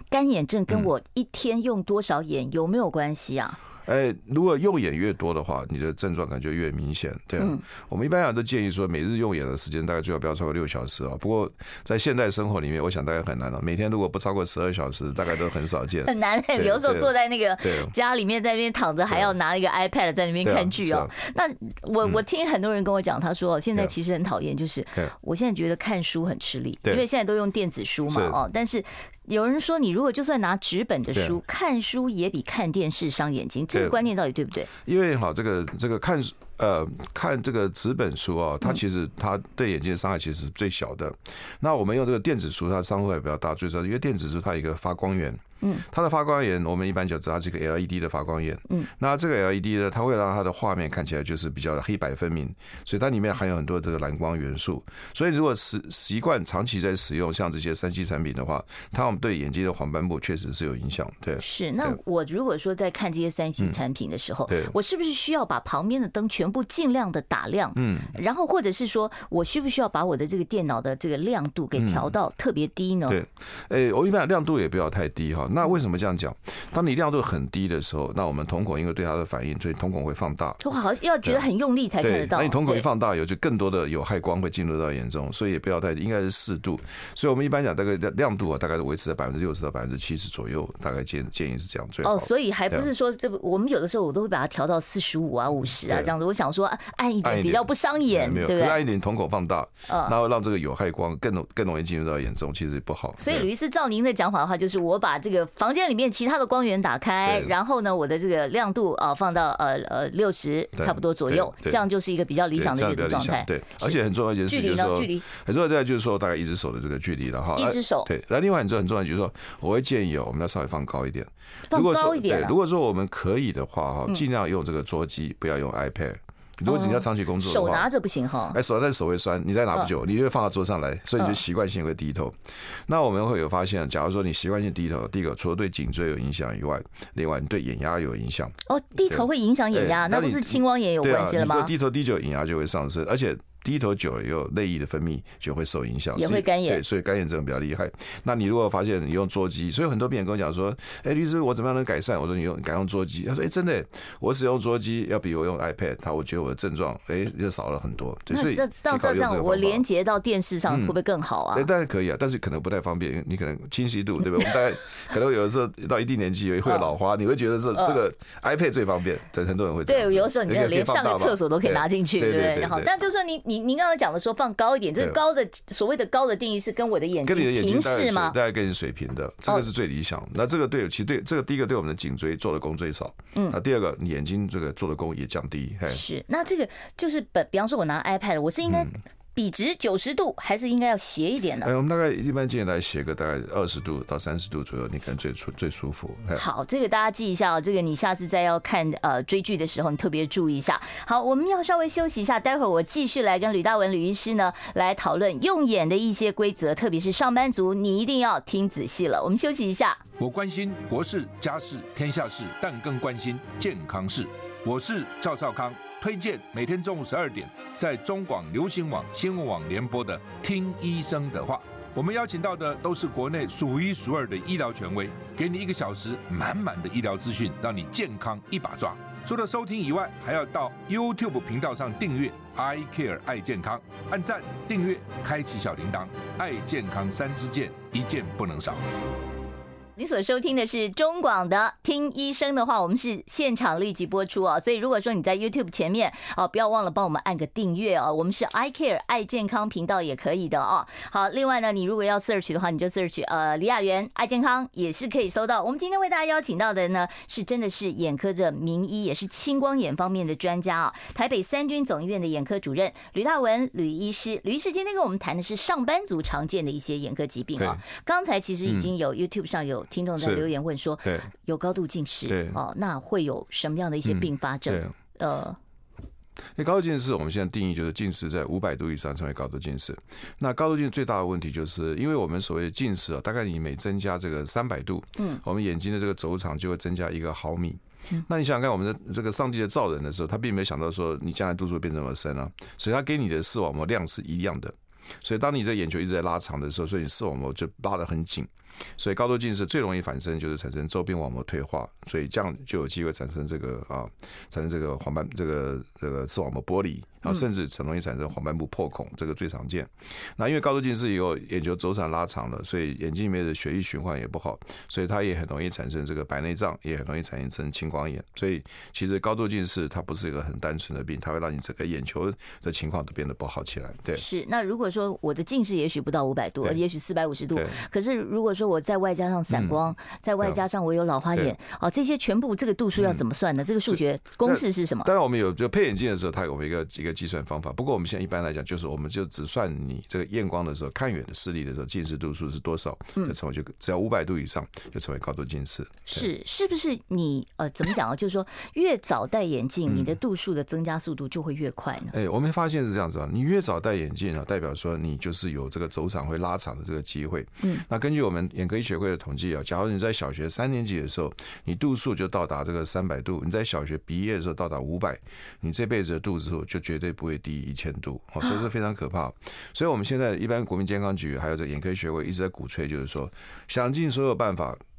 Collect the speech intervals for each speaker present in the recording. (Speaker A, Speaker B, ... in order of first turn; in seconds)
Speaker A: 0.1-3.6, 16.1-34.7, 61.4-73.2, 80.6-82.9, 92.0-98.8, 99.9-100.1, 103.2-114.0, 114.5-115.3, 117.6-118.1, 121.7-122.5, 126.7-128.6, 138.7-141.7, 146.2-146.8, 158.3-161.7, 166.7-166.9, 169.9-178.4, 185.9-191.7, 196.3-210.0, 240.0-275.6, 324.1-335.1, 346.1-352.1
Speaker B: 3.9-17.1, 17.6-17.9, 20.4-21.1, 28.1-28.4, 34.9-62.0, 64.5-64.8, 67.8-68.1, 71.8-72.1, 73.1-80.6, 82.0-92.9, 95.9-96.1, 97.2-103.5, 107.2-107.6, 110.8-111.8, 112.5-127.9, 128.5-138.6, 139.1-159.8, 160.7-161.0, 161.5-172.9, 177.2-186.0, 188.7-189.0, 191.6-196.4, 267.6-267.8, 268.7-268.9, 270.2-270.5, 271.0-271.3, 272.3-272.6, 274.1-274.9, 276.6-324.2, 329.5-329.8, 333.9-346.3, 352.1-374.8
Speaker C: 210.2-238.8